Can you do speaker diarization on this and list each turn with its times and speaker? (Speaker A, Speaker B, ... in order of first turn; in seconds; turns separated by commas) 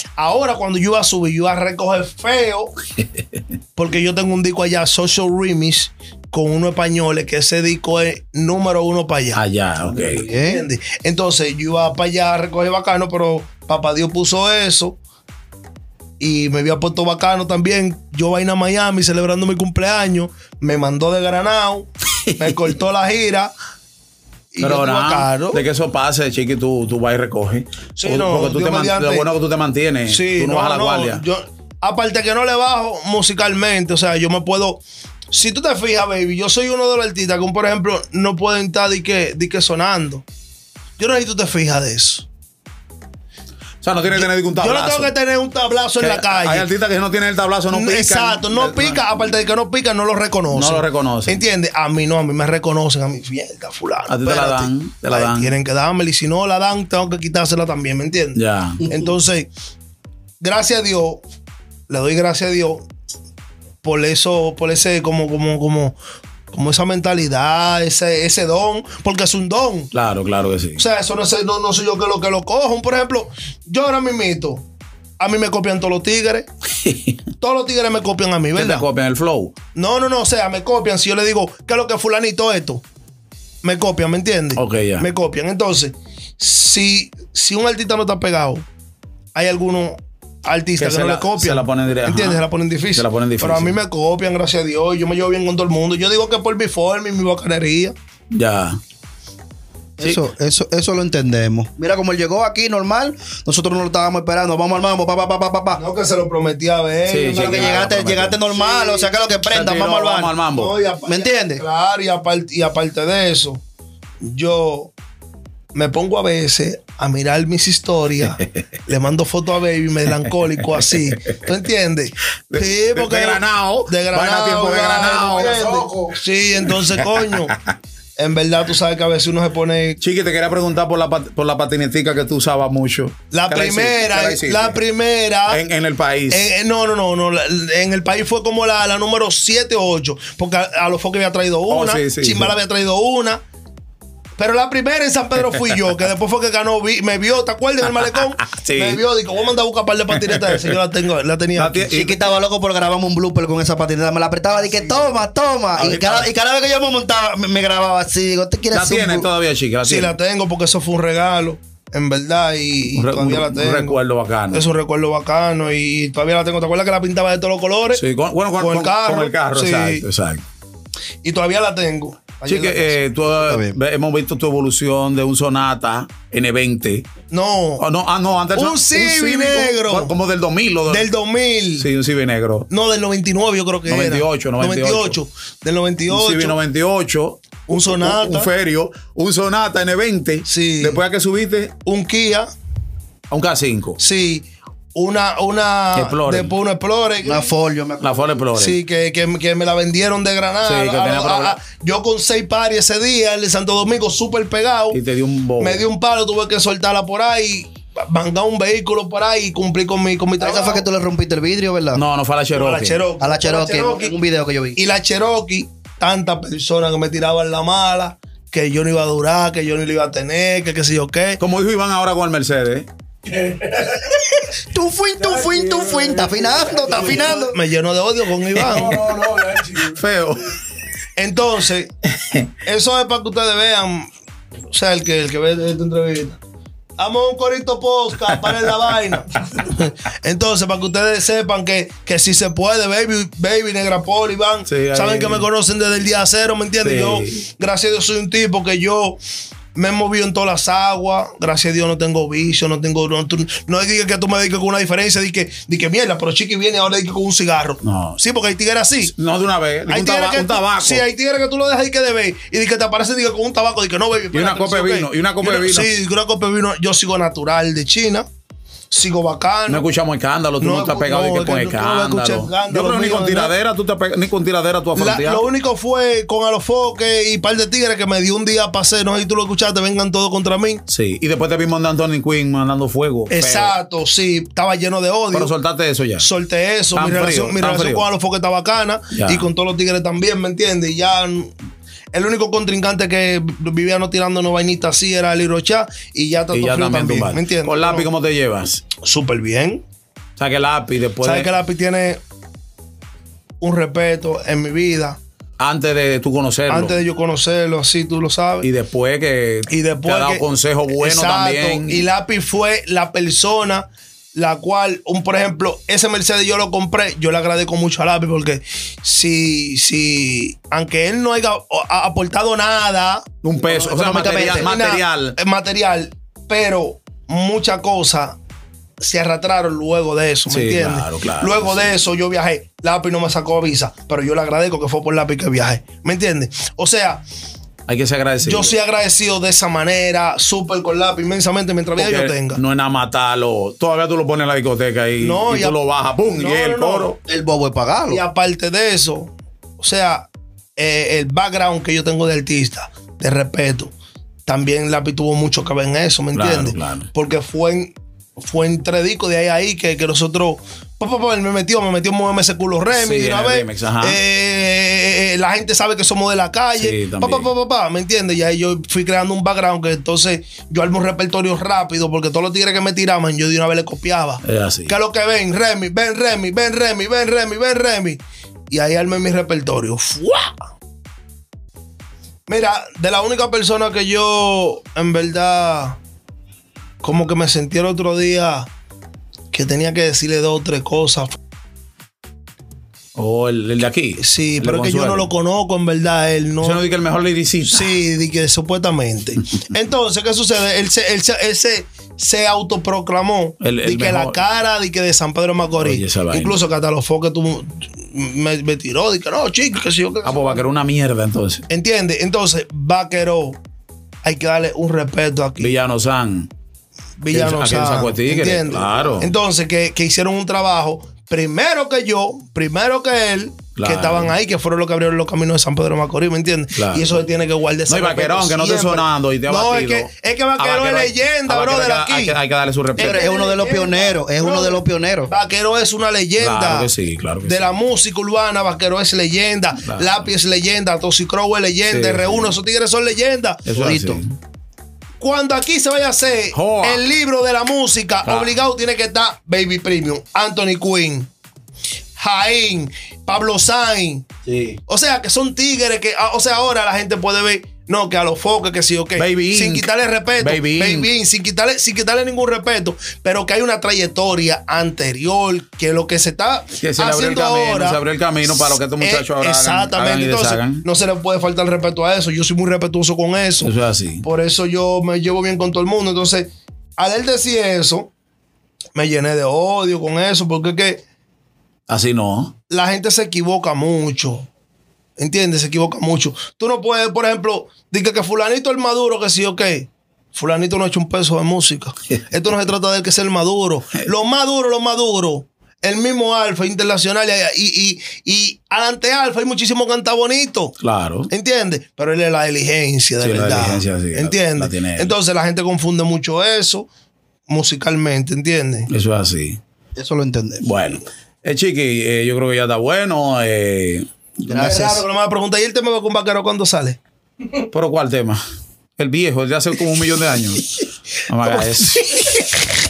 Speaker A: 0.2-2.7, Speaker A: 3.8-9.4, Speaker B: 9.3-10.2, Speaker A: 10.0-15.0, Speaker C: 10.2-10.7, Speaker A: 16.2-23.5, Speaker A: 24.5-25.6, Speaker B: 24.6-31.2, Speaker A: 28.0-29.3, Speaker A: 30.1-40.2, Speaker A: 41.0-42.3, Speaker B: 43.8-45.1, Speaker A: 44.1-46.7, Speaker B: 46.0-49.0, Speaker A: 47.7-59.5, Speaker B: 50.5-51.4, Speaker B: 54.1-55.5, Speaker B: 58.4-58.8, Speaker A: 60.4-61.2, Speaker A: 61.9-62.8, Speaker A: 63.8-66.0, Speaker A: 66.5-69.9, Speaker B: 69.9-70.8, Speaker A: 70.8-74.6, Speaker A: 75.2-76.5, Speaker B: 76.8-77.2, Speaker A: 77.4-78.9, Speaker B: 78.5-79.5, Speaker A: 79.7-82.8, Speaker A: 83.6-88.6, Speaker B: 84.5-85.1, Speaker A: 89.3-97.9, Speaker B: 90.8-92.4, Speaker B: 92.9-93.8, Speaker B: 98.3-98.8, Speaker C: 100.0-105.8, Speaker A: 105.7-109.1, Speaker B: 107.1-108.3, Speaker C: 107.3-110.3, Speaker B: 109.5-110.7, Speaker A: 110.5-113.6, Speaker C: 111.1-111.6, Speaker A: 114.2-114.9, Speaker A: 115.7-127.5, Speaker B: 122.5-125.8, Speaker B: 126.7-127.6, Speaker A: 128.2-130.0, Speaker B: 130.0-134.8, Speaker A: 133.3-135.6, Speaker B: 135.5-136.4, Speaker A: 136.3-143.4, Speaker B: 141.7-142.5, Speaker A: 144.4-152.0, Speaker B: 148.0-149.0, Speaker B: 150.2-150.8, Speaker B: 151.6-152.2, Speaker C: 151.9-159.3, Speaker A: 154.7-155.0, Speaker B: 155.8-156.3, Speaker B: 158.7-160.1, Speaker A: 159.8-164.0, Speaker B: 162.9-164.7, Speaker A: 164.5-168.0, Speaker B: 167.9-170.4, Speaker A: 168.6-170.1, Speaker A: 171.2-173.0, Speaker B: 172.4-177.1, Speaker C: 173.5-173.8, Speaker A: 177.3-177.8, Speaker B: 177.8-181.1, Speaker A: 178.5-180.1, Speaker A: 180.9-181.9, Speaker B: 181.8-182.7, Speaker A: 182.7-186.6, Speaker B: 183.9-185.2, Speaker B: 186.1-191.7, Speaker A: 187.7-188.5, Speaker A: 190.4-191.0, Speaker A: 191.8-192.5, Speaker B: 193.3-194.0, Speaker A: 194.0-197.5, Speaker B: 195.9-196.5, Speaker C: 197.2-198.2, Speaker B: 198.0-198.8, Speaker A: 198.5-205.0, Speaker B: 200.6-201.6, Speaker B: 204.9-205.8, Speaker A: 205.6-210.8, Speaker C: 210.4-212.0, Speaker B: 211.9-213.0, Speaker A: 212.5-214.1, Speaker C: 213.2-214.8, Speaker A: 214.7-221.4, Speaker B: 221.4-222.9, Speaker A: 223.4-223.8, Speaker C: 224.7-227.6, Speaker A: 226.7-229.9, Speaker B: 228.6-230.6, Speaker A: 231.2-231.9, Speaker A: 232.6-234.1, Speaker A: 234.7-236.4, Speaker A: 237.0-249.2, Speaker B: 238.2-238.9, Speaker B: 244.7-245.4, Speaker B: 246.8-247.4, Speaker A: 249.7-259.1, Speaker B: 257.8-258.2, Speaker B: 259.0-261.0, Speaker A: 259.9-268.3, Speaker B: 264.3-265.9, Speaker A: 268.9-269.9, Speaker B: 269.7-275.5, Speaker A: 270.6-273.5, Speaker A: 274.9-280.8, Speaker B: 280.9-283.7, Speaker A: 283.3-285.5, Speaker B: 285.3-286.3, Speaker A: 286.2-291.5, Speaker B: 286.9-288.1, Speaker B: 289.1-289.5, Speaker A: 292.1-298.1, Speaker B: 296.5-298.9, Speaker A: 298.9-299.8, Speaker B: 300.4-301.5, Speaker A: 301.2-302.2, Speaker A: 303.6-305.2, Speaker B: 305.6-306.9, Speaker A: 306.7-308.7, Speaker B: 308.6-312.1, Speaker A: 309.7-328.4, Speaker B: 323.4-325.4, Speaker C: 323.7-324.7, Speaker A: 329.0-337.2, Speaker B: 330.5-331.9, Speaker B: 337.9-338.8, Speaker A: 338.4-342.6, Speaker B: 342.0-347.2, Speaker A: 345.2-345.8, Speaker A: 346.3-347.1, Speaker C: 347.3-348.2, Speaker A: 348.1-353.9, Speaker A: 354.4-380.6, Speaker B: 356.3-357.1, Speaker B: 362.9-364.2, Speaker B: 366.8-367.5, Speaker B: 374.4-374.9, Speaker A: 382.5-386.0, Speaker A: 387.0-388.7, Speaker A: 389.5-391.4, Speaker B: 393.1-395.3, Speaker A: 394.2-396.8, Speaker B: 396.6-398.0, Speaker A: 397.6-410.6, Speaker B: 403.6-404.4, Speaker B: 405.8-406.6, Speaker B: 410.2-411.6, Speaker A: 411.7-413.6, Speaker A: 414.2-415.7, Speaker B: 415.6-416.5, Speaker A: 417.2-432.4, Speaker B: 417.3-419.3, Speaker B: 423.8-424.3, Speaker B: 426.7-427.2, Speaker B: 427.9-433.2, Speaker C: 433.0-435.3, Speaker A: 433.0-436.9, Speaker B: 436.4-437.7, Speaker A: 437.4-443.7, Speaker B: 439.8-440.2, Speaker B: 441.9-442.5, Speaker B: 443.6-444.4, Speaker C: 443.8-444.2, Speaker A: 445.2-451.3, Speaker B: 446.5-447.0, Speaker B: 448.2-448.5, Speaker A: 452.1-454.3, Speaker A: 454.9-478.1, Speaker B: 459.2-459.9, Speaker B: 460.4-461.1, Speaker B: 466.8-470.8, Speaker B: 473.6-474.2, Speaker A: 478.9-481.0, Speaker B: 481.9-482.5, Speaker A: 482.7-484.5, Speaker A: 485.2-500.8, Speaker B: 500.8-501.3, Speaker A: 501.3-506.9, Speaker B: 503.2-505.1, Speaker A: 507.5-508.9, Speaker B: 508.9-509.6, Speaker C: 510.0-510.6, Speaker B: 510.6-514.1, Speaker C: 514.4-515.0, Speaker A: 514.5-517.0, Speaker B: 517.7-518.4, Speaker B: 519.0-522.5